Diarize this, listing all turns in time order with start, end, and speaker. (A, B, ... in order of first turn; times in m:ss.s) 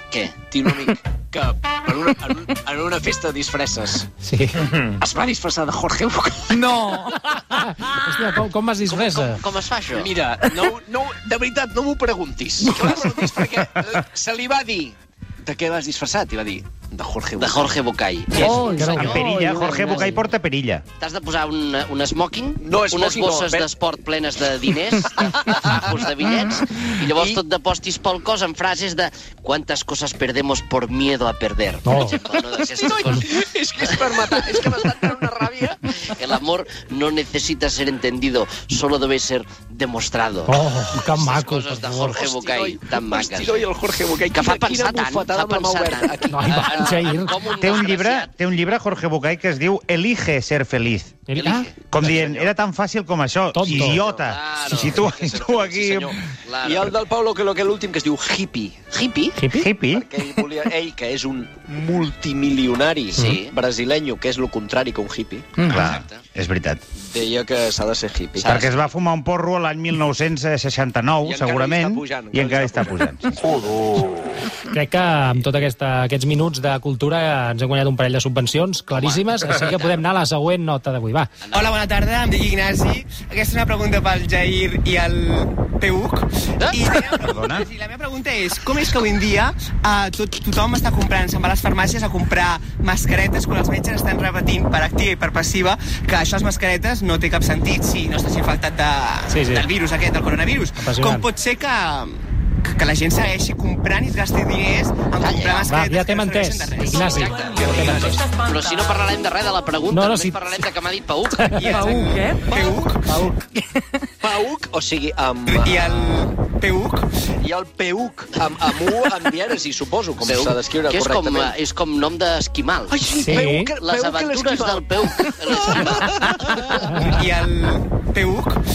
0:00.1-0:00.4 A
0:00.4-0:04.1 B
0:04.2-0:04.8 C
0:04.8-0:06.7 B
0:06.5-0:07.2 D
0:06.9-0:09.4 C
0:08.8-0:10.1 A
0:10.0-0:17.8 B
0:17.4-0:19.3 A
0:18.4-0:20.2 C
0:18.8-0:20.8 E
0:21.0-0:33.3 A
0:22.6-0:23.7 B
0:25.2-0:25.7 B
0:31.8-0:32.2 C
0:32.8-0:35.9 B
0:36.0-0:43.7 A
0:40.5-0:42.2 C
0:42.0-0:47.1 B
0:44.3-0:48.3 A
0:46.3-0:47.5 C
0:47.6-0:51.2 E
0:51.3-0:51.7 C
0:51.4-0:52.4 A
0:51.9-0:56.1 E
0:52.1-0:52.5 B
0:53.5-0:54.0 C
0:53.7-0:54.1 B
0:54.1-0:55.0 A
0:54.7-0:58.8 B
0:56.4-0:56.9 A
0:58.9-0:59.4 A
0:59.4-0:59.7 C
0:59.5-1:00.1 E
0:59.9-1:05.6 B
1:03.2-1:03.6 A
1:05.6-1:05.9 D
1:05.6-1:06.8 E
1:05.7-1:06.2 A
1:07.0-1:08.5 B
1:08.4-1:08.8 A
1:08.4-1:13.4 E
1:11.2-1:14.5 B
1:14.7-1:21.3 C
1:18.9-1:20.0 A
1:21.5-1:42.1 F
1:26.6-1:26.9 A
1:27.3-1:27.7 E
1:39.3-1:39.7 C
1:40.8-1:41.3 C
1:42.7-1:47.3 F
1:45.2-1:45.9 B
1:45.6-1:48.2 C
1:46.9-1:51.7 A
1:47.5-1:48.4 B
1:49.9-1:50.6 C
1:51.3-1:51.9 C
1:51.5-1:53.2 F
1:51.7-1:52.8 D
1:53.0-1:53.4 C
1:53.5-1:54.0 D
1:54.2-1:56.3 B
1:55.5-1:57.1 F
1:57.4-2:01.6 B
2:00.2-2:07.1 A
2:02.9-2:06.9 B
2:03.1-2:03.7 C
2:07.0-2:08.6 F